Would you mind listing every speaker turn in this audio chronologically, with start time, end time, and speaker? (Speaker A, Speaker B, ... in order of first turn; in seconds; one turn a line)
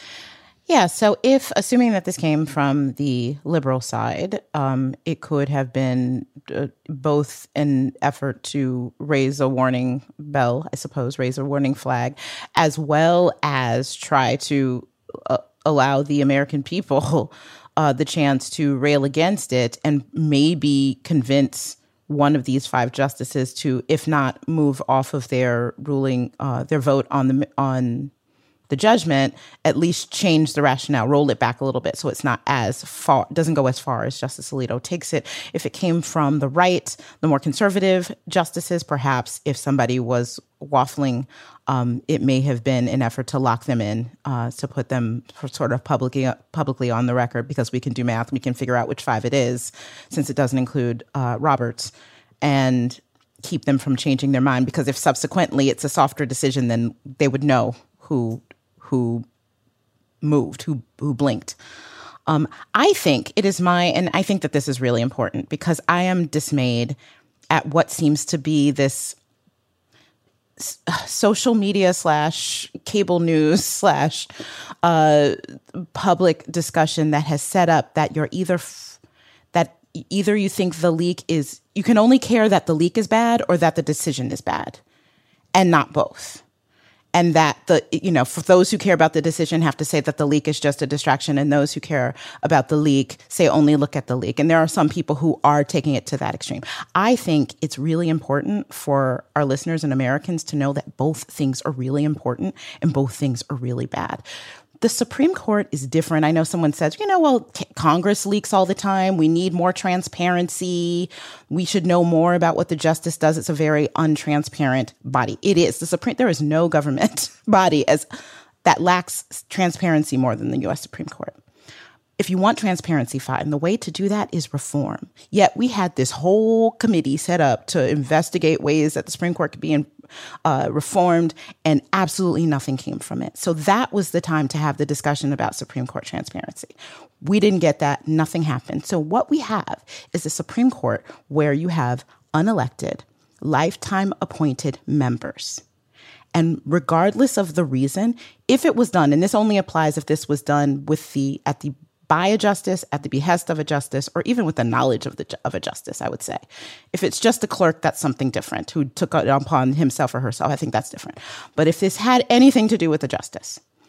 Speaker A: 0.7-28.1
Speaker A: 28.7-59.2
Speaker A: 60.2-61.6
Speaker A: 62.3-67.0
Speaker A: 67.5-69.2
Speaker A: 70.6-74.3
Speaker A: 74.8-79.0
Speaker A: 79.5-84.8
Speaker A: 85.5-86.4
Speaker A: 87.1-104.2
Speaker A: 104.8-118.0
Speaker A: 118.7-121.4
Speaker A: 122.2-129.9
Speaker A: 130.4-145.6
Speaker A: 146.3-156.4
Speaker A: 156.9-163.6